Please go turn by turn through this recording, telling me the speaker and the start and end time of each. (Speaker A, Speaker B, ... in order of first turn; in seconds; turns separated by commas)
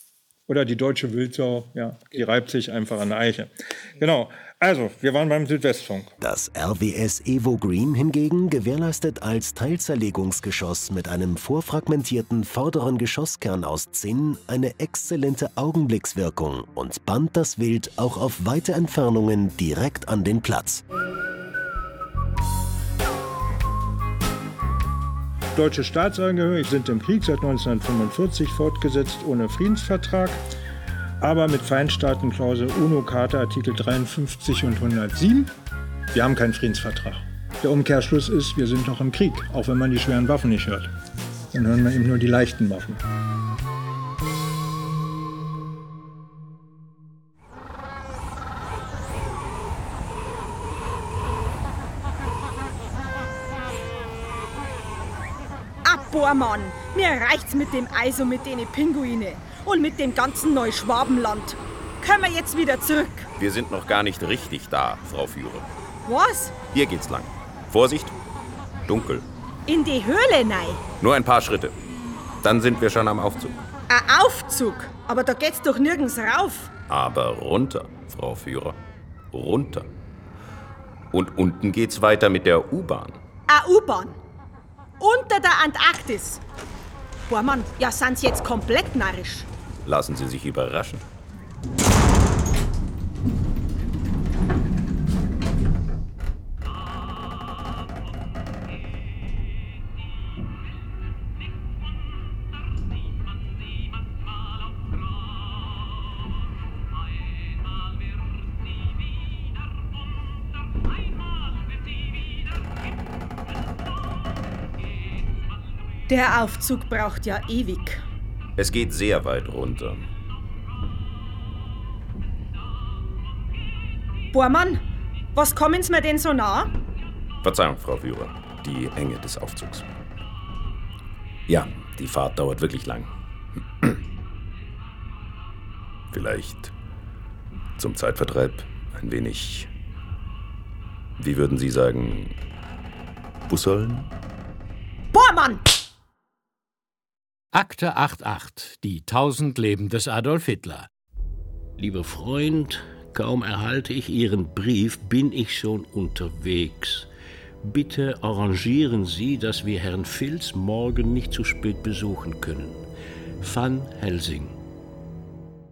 Speaker A: 0.5-6.1, Speaker B: 6.2-20.8, Speaker A: 25.5-30.4, Speaker A: 31.2-35.5, Speaker A: 36.1-40.9, Speaker A: 41.5-43.0, Speaker C: 55.8-63.3, Speaker D: 63.4-65.7, Speaker C: 66.0-66.6, Speaker D: 66.7-68.1, Speaker D: 68.9-69.2, Speaker C: 69.7-70.8, Speaker D: 71.0-71.7, Speaker D: 72.4-73.6, Speaker C: 73.9-76.7, Speaker D: 76.9-78.8, Speaker D: 79.3-79.9, Speaker D: 81.1-83.2, Speaker C: 83.5-84.2, Speaker C: 85.0-86.4, Speaker C: 87.3-89.5, Speaker D: 89.8-91.0, Speaker C: 116.1-118.0, Speaker D: 118.6-120.1, Speaker C: 124.3-124.8, Speaker C: 125.3-126.7, Speaker D: 127.4-129.9, Speaker D: 131.5-133.1, Speaker D: 136.1-136.7, Speaker D: 137.8-139.7, Speaker D: 141.2-142.3, Speaker D: 143.5-144.1, Speaker C: 145.1-145.6, Speaker E: 147.5-150.9, Speaker F: 151.8-157.1, Speaker F: 157.6-162.9, Speaker F: 163.4-164.6